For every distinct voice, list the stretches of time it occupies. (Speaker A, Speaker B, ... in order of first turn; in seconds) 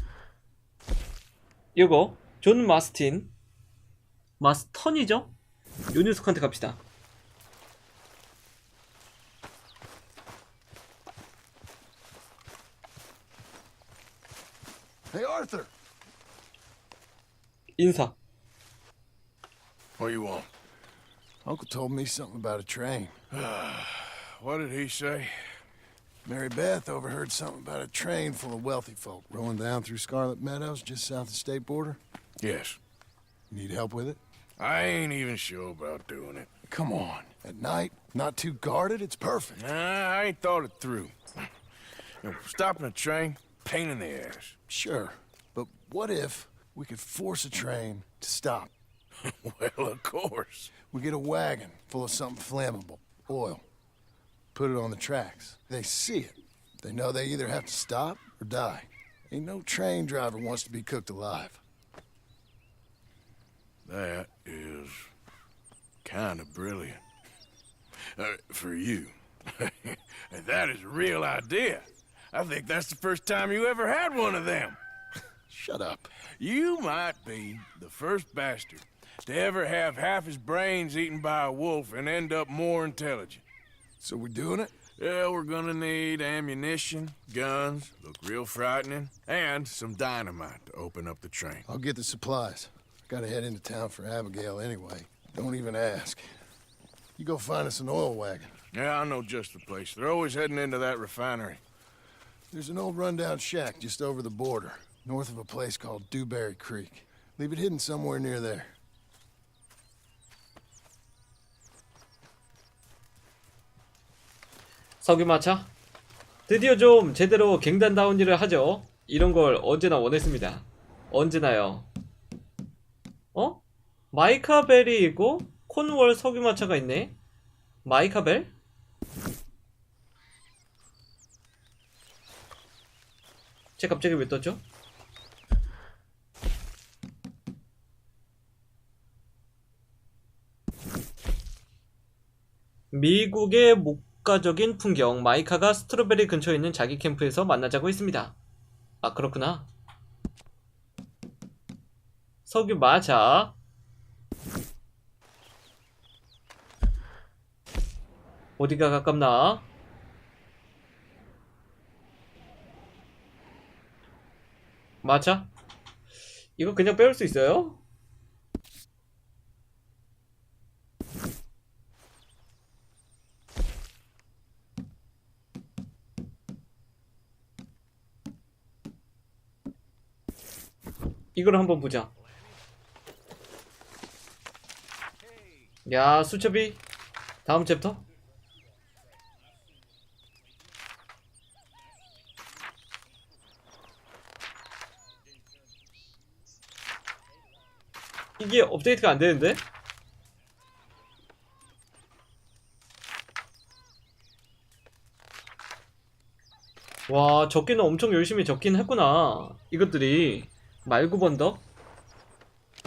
Speaker A: 1.8-3.3, 4.4-5.3, 5.9-6.8, 17.8-18.2, 115.0-115.7, 116.5-121.9, 123.3-127.2, 127.8-128.5, 133.8-134.6, 142.9-148.3, 149.0-149.7, 152.5-153.6, 158.6-159.7, 165.0-165.5, 166.6-167.8, 181.3-182.1, 185.9-186.8, 187.4-188.0, 198.4-199.6, 207.1-211.6
Speaker B: 15.1-15.7, 21.4-23.1, 26.2-32.0, 33.5-34.2, 36.7-39.6, 44.7-48.7, 50.8-53.6, 54.5-61.6, 75.5-76.1, 84.0-84.7, 91.7-96.3, 97.2-98.5, 102.5-108.8
Speaker C: 20.0-20.5, 23.3-25.4, 32.4-32.8, 34.6-36.5, 39.5-41.1, 42.2-44.6, 49.2-50.7, 63.9-65.1, 66.0-67.0, 68.2-74.8, 76.4-83.4, 85.0-91.7, 98.7-101.6